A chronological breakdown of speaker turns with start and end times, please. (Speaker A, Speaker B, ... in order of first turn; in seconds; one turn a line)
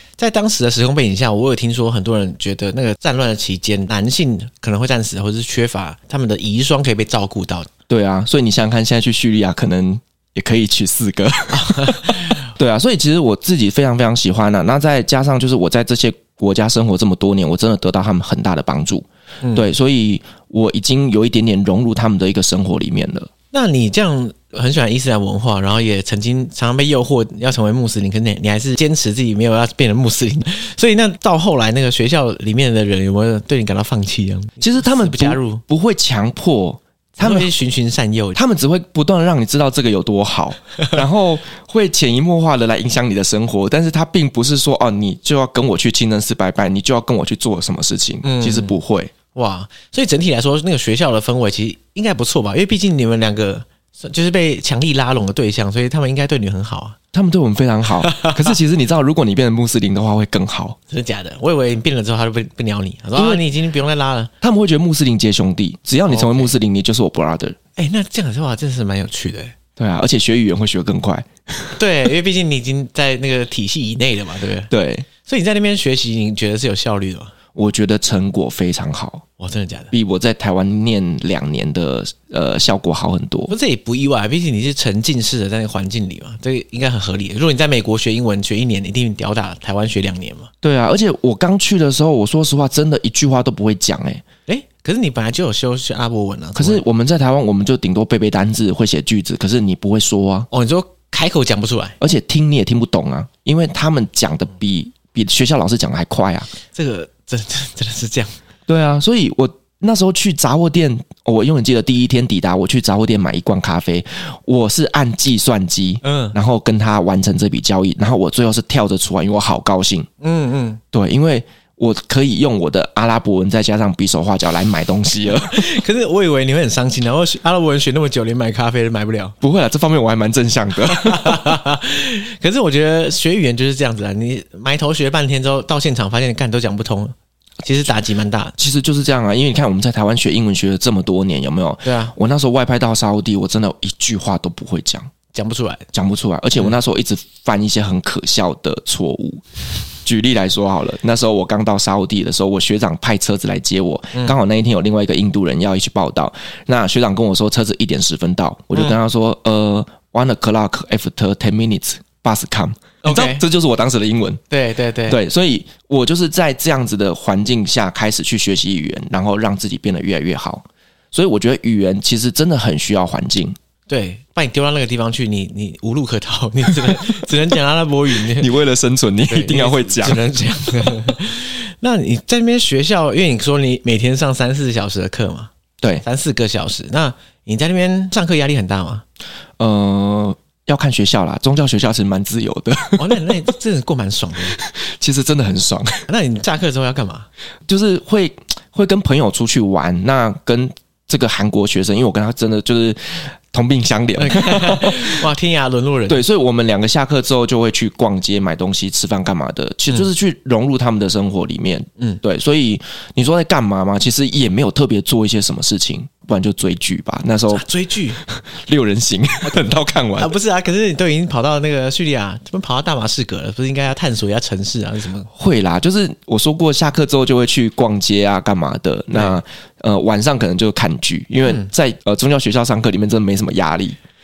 Speaker A: 0.2-7.7
Speaker B: 7.9-23.3
Speaker A: 11.5-12.4
Speaker A: 19.4-19.7
Speaker A: 23.5-35.6
Speaker B: 34.6-37.5
Speaker A: 37.2-38.4
Speaker B: 38.4-49.1
Speaker A: 48.2-48.8
Speaker A: 49.3-57.0
Speaker B: 57.1-60.8
Speaker A: 58.0-58.5
Speaker A: 60.9-64.3
Speaker B: 63.2-63.4
Speaker B: 64.4-67.6
Speaker A: 66.1-66.5
Speaker A: 67.8-69.5
Speaker B: 69.8-71.8
Speaker A: 71.8-74.7
Speaker B: 74.7-75.1
Speaker A: 75.2-77.3
Speaker B: 77.5-79.2
Speaker A: 79.4-79.9
Speaker B: 79.9-83.5
Speaker A: 83.5-90.5
Speaker B: 90.6-94.2
Speaker A: 94.5-96.8
Speaker B: 96.6-100.5
Speaker A: 100.5-102.0
Speaker B: 102.0-106.5
Speaker A: 106.7-108.4
Speaker B: 108.7-120.1
Speaker A: 116.0-116.4
Speaker A: 120.2-120.8
Speaker B: 120.9-125.8
Speaker A: 125.3-129.4
Speaker B: 129.4-131.6
Speaker A: 130.9-138.6
Speaker B: 138.6-145.1
Speaker A: 141.8-142.1
Speaker A: 145.3-145.9
Speaker B: 145.9-164.4
Speaker A: 163.0-163.4
Speaker A: 164.5-165.2
Speaker B: 165.1-173.6
Speaker A: 173.9-178.5
Speaker B: 178.3-180.2
Speaker A: 179.3-185.5
Speaker A: 186.0-189.0
Speaker B: 189.6-193.3
Speaker A: 193.0-194.6
Speaker B: 194.6-196.1
Speaker A: 196.1-197.3
Speaker B: 197.7-205.3
Speaker A: 204.2-206.2
Speaker B: 206.1-217.6
Speaker A: 217.5-218.2
Speaker B: 218.2-220.3
Speaker A: 220.2-225.3
Speaker B: 225.3-234.0